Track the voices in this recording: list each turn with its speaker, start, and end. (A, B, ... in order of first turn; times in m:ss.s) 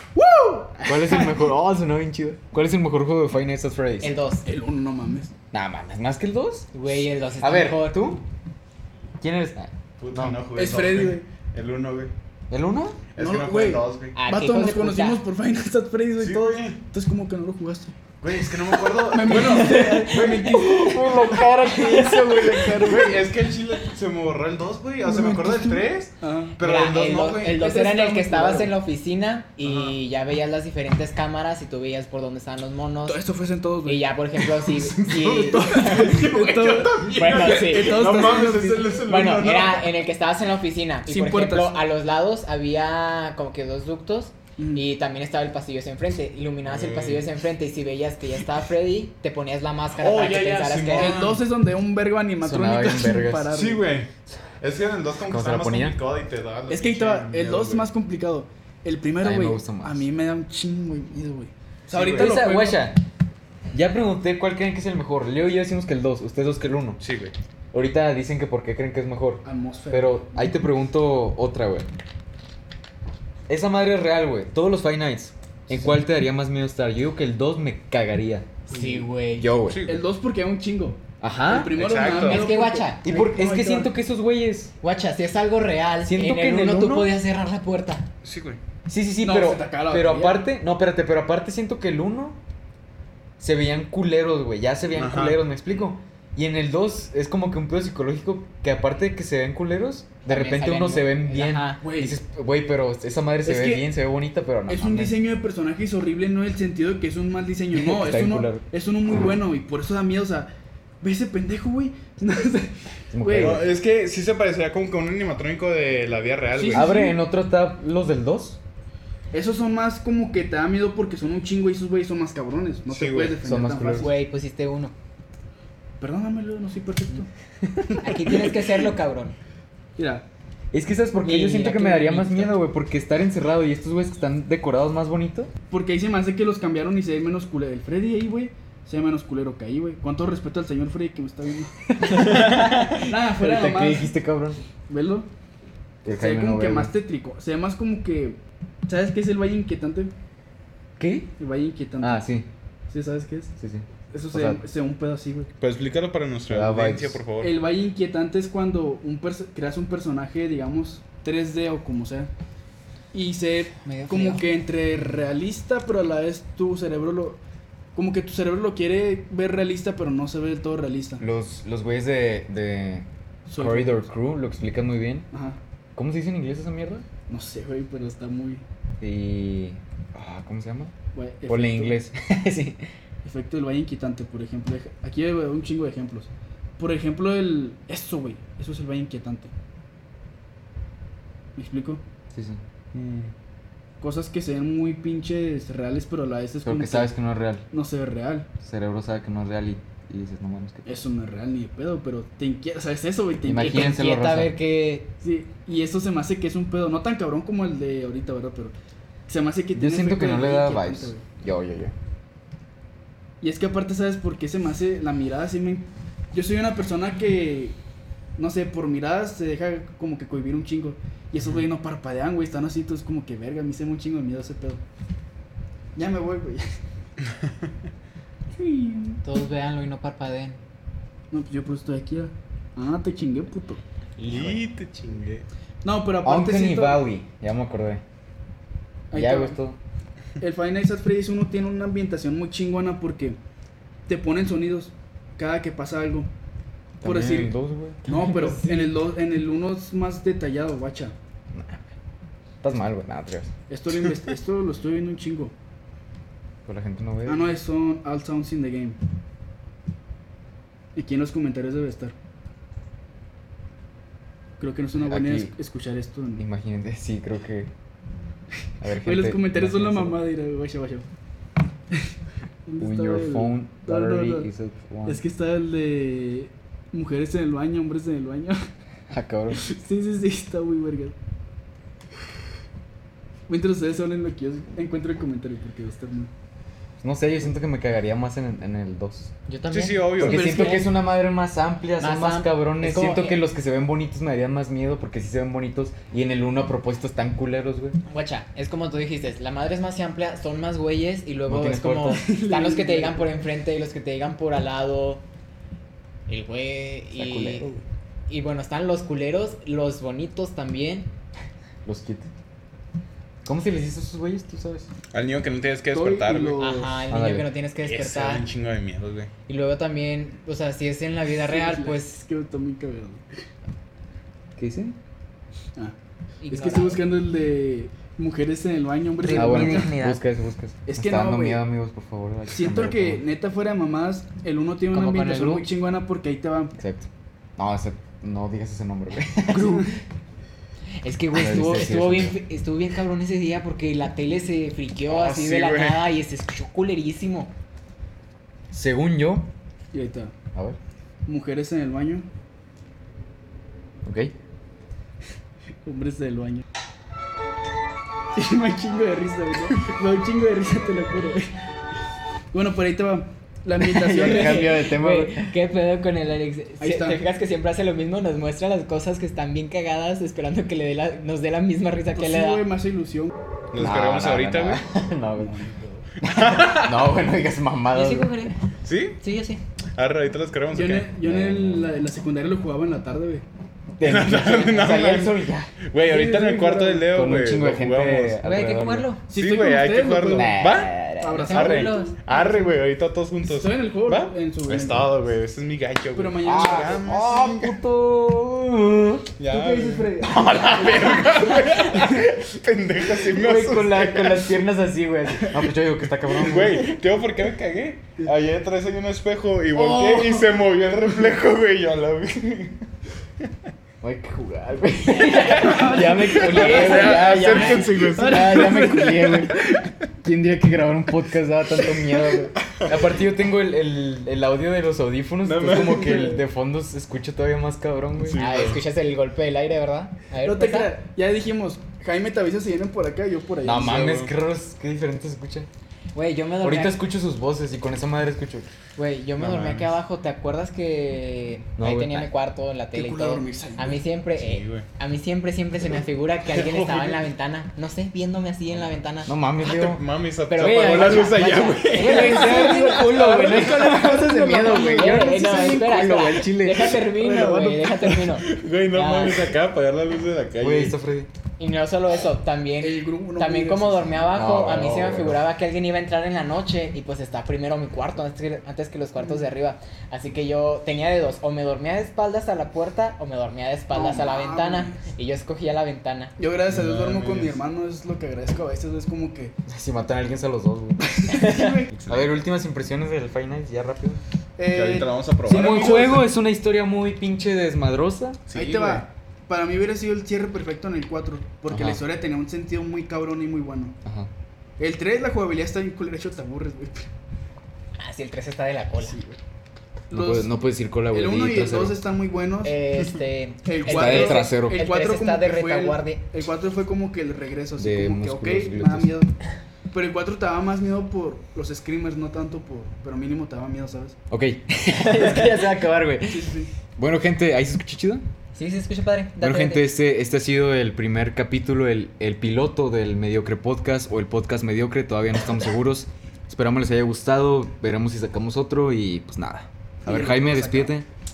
0:00.2-0:01.3 A
0:00.8-0:04.1 B
0:04.0-0:04.5 C
0:04.4-0:05.3 A
0:05.5-0:06.8 B
0:06.7-0:08.0 C
0:07.4-0:08.2 B
0:09.2-0:10.4 B
0:10.0-0:12.1 D
0:10.5-0:11.2 A
0:12.5-0:13.0 B
0:13.1-0:14.2 D
0:13.2-0:17.9 A
0:14.1-0:15.2 C
0:16.2-0:16.8 D
0:18.2-0:20.8 D
0:18.8-0:21.4 A
0:19.3-0:22.9 C
0:20.6-0:22.6 B
0:21.9-0:27.6 D
0:22.1-0:23.1 A
0:25.0-0:26.6 A
0:26.6-0:33.2 C
0:27.4-0:28.7 A
0:29.6-0:29.9 D
0:33.0-0:34.1 A
0:33.8-0:38.1 C
0:34.8-0:39.9 D
0:35.1-0:39.1 A
0:39.0-0:51.3 C
0:41.0-0:41.8 A
0:44.6-0:44.8 A
0:46.7-0:47.2 D
0:50.0-0:51.5 D
0:50.9-0:53.8 A
0:52.4-0:53.5 B
0:53.5-0:57.9 D
0:55.3-0:56.0 B
0:56.7-1:02.9 A
0:59.2-1:00.0 B
1:01.9-1:02.4 D
1:02.1-1:03.0 B
1:03.7-1:07.0 B
1:07.0-1:07.3 D
1:07.7-1:11.9 B
1:09.4-1:10.5 A
1:13.5-1:18.5 B
1:18.7-1:19.5 C
1:18.7-1:19.1 A
1:19.4-1:19.9 B
1:19.7-1:20.0 D
1:19.8-1:23.9 A
1:21.2-1:21.8 B
1:21.7-1:22.4 D
1:22.1-1:23.0 C
1:23.0-1:24.7 B
1:24.8-1:28.1 C
1:26.0-1:27.1 B
1:28.2-1:28.6 D
1:28.8-1:32.4 B
1:29.2-1:30.4 A
1:33.4-1:45.2 B
1:34.9-1:35.4 D
1:40.2-1:41.8 C
1:41.8-1:42.2 A
1:43.4-1:43.9 A
1:44.7-1:50.5 A
1:47.7-1:48.6 B
1:51.0-1:53.6 A
1:53.1-1:53.6 B
1:53.4-1:57.0 D
1:56.5-1:57.2 A
1:56.7-1:58.6 B
1:59.3-2:04.1 A
2:02.9-2:03.4 D
2:03.4-2:04.1 B
2:04.0-2:04.9 C
2:06.0-2:07.3 A
2:07.6-2:08.0 B
2:08.0-2:08.5 A
2:08.0-2:09.3 C
2:10.0-2:10.2 A
2:10.7-2:15.5 B
2:11.1-2:12.6 C
2:15.7-2:24.1 A
2:22.0-2:24.6 B
2:22.5-2:22.8 D
2:24.9-2:25.3 A
2:26.0-2:26.9 B
2:26.1-2:30.1 A
2:31.0-2:31.3 B
2:31.4-2:32.2 A
2:32.0-2:32.5 B
2:32.9-2:33.5 A
2:33.6-2:34.6 B
2:34.1-2:35.5 A
2:35.6-2:37.5 D
2:36.5-2:37.2 B
2:37.4-2:42.3 A
2:43.1-2:47.4 A
2:43.8-2:44.4 C
2:47.9-2:51.2 A
2:51.2-2:55.3 B
2:53.5-2:54.1 A
2:55.3-2:55.6 A
2:55.9-2:57.0 B
2:57.3-2:58.6 A
2:59.0-3:00.9 B
3:01.1-3:02.0 A
3:01.5-3:02.9 B
3:03.2-3:09.5 A
3:11.6-3:12.0 A
3:12.3-3:12.6 B
3:12.9-3:13.3 D
3:14.0-3:17.1 A
3:16.6-3:17.6 B
3:17.7-3:18.5 A
3:18.6-3:20.9 B
3:20.8-3:23.9 A
3:23.4-3:24.5 B
3:23.5-3:25.1 C
3:25.2-3:28.7 A
3:29.3-3:31.2 A
3:29.7-3:31.9 B
3:33.4-3:37.8 A
3:38.4-3:44.8 A
3:46.0-3:46.6 A
3:48.6-3:49.2 A
3:49.2-3:50.6 C
3:51.3-3:53.8 A
3:54.2-3:55.4 D
3:54.3-3:54.6 B
3:55.8-3:57.0 A
3:56.2-3:58.0 B
3:59.1-3:59.6 A
3:59.1-3:59.8 B
4:00.4-4:03.4 A
4:04.1-4:06.3 A
4:07.0-4:08.1 B
4:07.0-4:11.1 A
4:11.5-4:11.9 B
4:12.6-4:13.5 B
4:13.7-4:15.5 A
4:16.6-4:17.5 B
4:17.2-4:19.0 A
4:20.9-4:22.1 A
4:24.6-4:26.4 A
4:25.0-4:25.5 B
4:26.4-4:27.7 B
4:28.8-4:30.2 B
4:29.0-4:31.0 A
4:32.6-4:34.5 A
4:32.8-4:35.2 B
4:35.0-4:38.6 A
4:39.1-4:39.6 B
4:39.5-4:41.1 A
4:43.5-4:46.3 A
4:47.0-4:49.3 B
4:49.5-4:50.9 C
4:49.7-4:50.4 D
4:50.2-4:58.0 B
4:50.3-4:50.9 A
4:52.0-4:53.4 C
4:58.1-5:05.2 C
5:01.5-5:02.2 B
5:02.1-5:03.3 A
5:06.3-5:07.7 C
5:07.2-5:07.8 B
5:08.3-5:11.1 C
5:11.8-5:12.3 B
5:13.4-5:14.9 B
5:15.1-5:16.6 D
5:15.9-5:17.0 A
5:16.6-5:18.5 C
5:17.1-5:17.5 B
5:17.8-5:19.3 D
5:19.5-5:22.2 C
5:21.4-5:23.2 A
5:24.6-5:25.0 B
5:26.4-5:27.0 C
5:26.5-5:30.0 A
5:29.2-5:30.2 C
5:29.3-5:33.2 B
5:30.9-5:31.6 A
5:32.5-5:36.7 A
5:34.9-5:35.7 C
5:36.8-5:39.9 B
5:39.5-5:39.8 A
5:41.0-5:47.5 C
5:41.3-5:42.4 B
5:45.1-5:46.0 D
5:48.7-5:49.5 B
5:49.9-5:50.3 A
5:51.2-5:52.2 A
5:54.0-5:54.3 B
5:55.8-5:56.6 A
5:58.3-6:01.5 A
6:02.5-6:04.8 A
6:04.0-6:05.5 B
6:04.0-6:12.6 C
6:06.8-6:07.3 A
6:12.1-6:13.3 A
6:13.7-6:14.8 D
6:13.8-6:15.6 B
6:15.4-6:16.1 A
6:16.2-6:17.1 D
6:16.2-6:18.3 B
6:17.9-6:18.5 C
6:18.8-6:19.2 D
6:19.2-6:19.6 C
6:20.0-6:21.1 D
6:20.7-6:23.4 A
6:21.2-6:22.0 B
6:24.0-6:25.7 B
6:24.0-6:28.4 D
6:26.0-6:27.1 A
6:27.1-6:29.1 B
6:28.4-6:29.2 C
6:29.3-6:32.8 A
6:29.3-6:31.0 D
6:30.3-6:31.7 B
6:31.3-6:32.2 C
6:31.5-6:37.8 D
6:33.4-6:35.1 A
6:36.1-6:37.1 A
6:36.4-6:39.3 B
6:39.4-6:44.4 D
6:39.5-6:42.3 A
6:40.2-6:41.5 B
6:43.3-6:47.0 B
6:46.4-6:52.8 D
6:49.7-6:50.5 A
6:54.0-6:59.6 B
6:55.4-6:59.9 A
6:55.5-6:55.9 D
6:56.5-6:59.0 D
7:00.2-7:08.4 B
7:05.4-7:06.4 D
7:05.9-7:06.2 A
7:08.2-7:08.8 D
7:08.4-7:10.9 C
7:10.4-7:14.1 A
7:13.6-7:15.7 B
7:13.7-7:14.3 D
7:16.1-7:17.0 C
7:16.6-7:18.7 B
7:19.0-7:29.3 C
7:19.4-7:19.9 D
7:21.8-7:22.3 B
7:22.9-7:24.0 A
7:24.4-7:24.9 D
7:26.5-7:27.2 D
7:29.2-7:30.0 B
7:29.6-7:34.7 D
7:30.5-7:39.5 C
7:31.9-7:38.2 A
7:38.4-7:41.0 D
7:40.6-7:41.3 B
7:41.6-7:56.3 C
7:42.8-7:44.2 A
7:44.3-7:45.4 B
7:53.9-7:55.0 A
7:56.4-7:59.6 A
7:56.7-7:57.6 D
7:59.7-8:01.4 B
8:01.1-8:02.0 A
8:01.3-8:01.8 C
8:02.0-8:04.2 B
8:04.6-8:06.2 A
8:04.7-8:06.1 D
8:05.4-8:08.4 B
8:08.5-8:09.0 D
8:08.5-8:14.0 A
8:11.7-8:12.0 B
8:14.0-8:14.3 B
8:14.8-8:17.1 A
8:18.0-8:19.2 C
8:19.0-8:19.4 A
8:20.1-8:20.5 A
8:20.1-8:22.0 B
8:21.1-8:22.8 A
8:22.6-8:26.2 C
8:23.6-8:29.3 A
8:23.8-8:24.8 B
8:27.8-8:29.1 B
8:29.9-8:34.2 A
8:34.3-8:38.2 B
8:35.2-8:35.4 C
8:36.2-8:36.7 A
8:38.6-8:39.9 C
8:39.4-8:51.0 B
8:50.0-8:50.9 A